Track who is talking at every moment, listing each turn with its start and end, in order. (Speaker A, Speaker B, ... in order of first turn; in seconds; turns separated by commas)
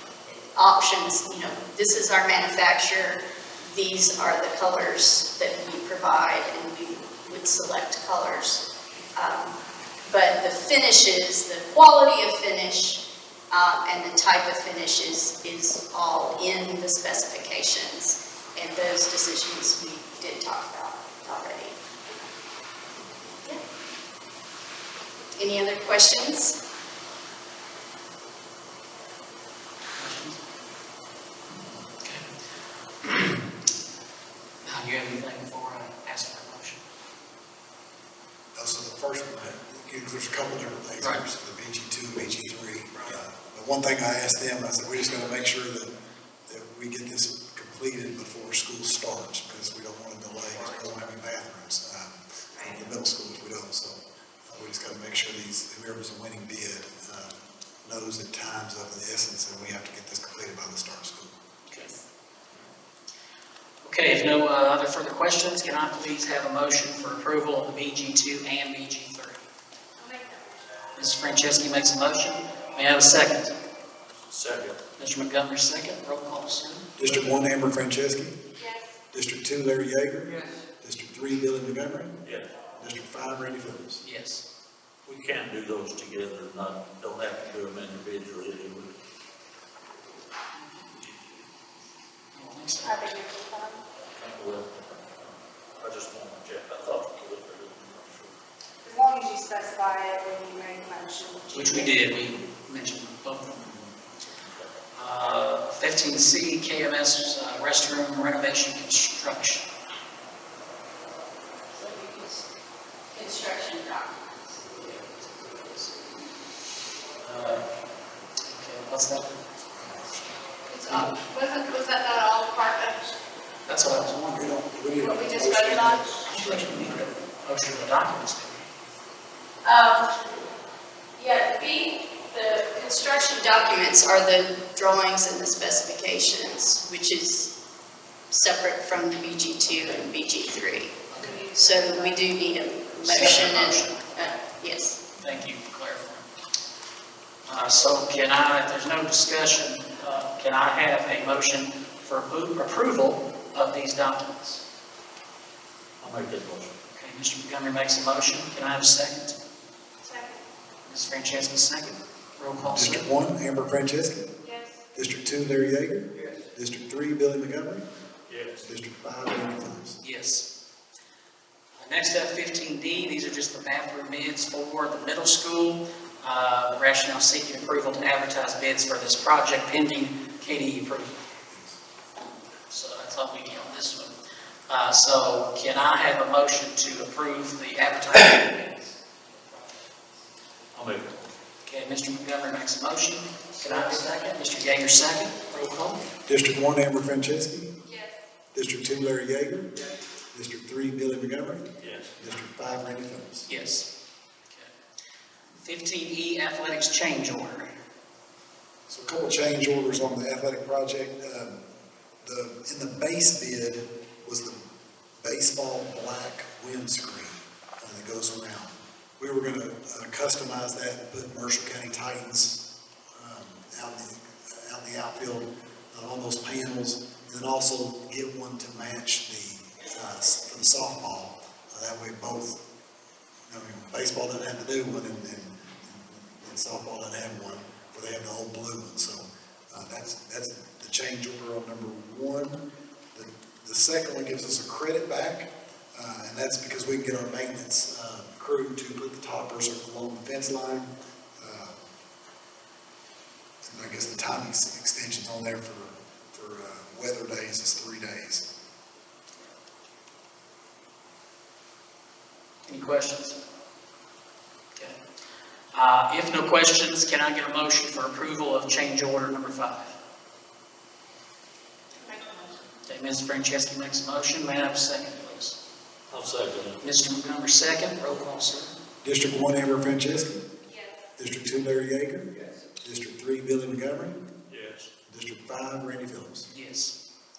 Speaker A: 0.5-8.6, Speaker A: 9.2-21.8, Speaker A: 25.4-26.6, Speaker B: 29.9-30.4, Speaker B: 31.9-32.3, Speaker B: 33.0-33.5, Speaker B: 34.6-36.8, Speaker C: 38.5-45.9, Speaker B: 42.9-43.2, Speaker C: 46.5-61.3, Speaker A: 61.7-62.0, Speaker B: 63.8-69.4, Speaker B: 71.0-73.5, Speaker D: 74.3-74.8, Speaker B: 75.0-76.8, Speaker C: 77.0-78.4, Speaker C: 79.1-82.2, Speaker D: 82.2-82.5, Speaker C: 82.8-84.0, Speaker B: 84.0-84.4, Speaker D: 85.0-88.9, Speaker B: 92.3-93.1, Speaker E: 92.8-93.8, Speaker D: 94.1-98.3, Speaker E: 98.8-101.9, Speaker B: 101.5-103.8, Speaker D: 104.4-104.7, Speaker B: 104.9-109.7, Speaker A: 111.7-112.4, Speaker A: 113.1-114.6, Speaker B: 114.7-115.9, Speaker B: 117.2-117.7, Speaker B: 118.5-119.4, Speaker E: 120.7-123.2, Speaker B: 120.9-121.1, Speaker B: 123.7-124.5, Speaker C: 124.3-127.1, Speaker E: 124.9-126.2, Speaker B: 125.8-128.6, Speaker A: 129.6-130.2, Speaker A: 131.2-137.5, Speaker A: 138.3-141.0, Speaker B: 141.1-141.4, Speaker E: 141.2-142.2, Speaker A: 141.5-145.0, Speaker B: 143.0-144.0, Speaker B: 145.2-146.2, Speaker B: 147.4-154.6, Speaker D: 156.0-156.7, Speaker B: 156.9-159.4, Speaker E: 160.1-160.4, Speaker B: 160.8-163.1, Speaker C: 162.6-164.3, Speaker C: 164.9-167.8, Speaker D: 168.3-168.7, Speaker C: 168.6-170.0, Speaker B: 170.0-170.5, Speaker B: 171.8-181.2, Speaker C: 181.4-181.8, Speaker B: 182.7-184.1, Speaker B: 184.7-188.9, Speaker D: 190.7-191.3, Speaker B: 191.6-196.0, Speaker C: 196.2-197.7, Speaker C: 198.5-199.7, Speaker C: 200.3-201.7, Speaker D: 201.8-202.1, Speaker C: 202.2-203.5, Speaker B: 203.5-203.9, Speaker B: 205.6-207.7, Speaker C: 208.9-211.6, Speaker C: 212.2-214.6, Speaker C: 215.2-222.6, Speaker C: 223.1-232.6, Speaker C: 233.5-242.6, Speaker C: 243.1-251.7, Speaker C: 253.6-258.4, Speaker B: 262.7-263.4, Speaker B: 265.7-269.9, Speaker E: 272.0-272.6, Speaker B: 272.9-275.6, Speaker D: 276.1-276.8, Speaker B: 276.8-278.7, Speaker C: 279.0-280.4, Speaker C: 281.2-282.3, Speaker C: 282.8-284.1, Speaker D: 284.5-284.9, Speaker C: 285.1-286.5, Speaker B: 286.5-286.9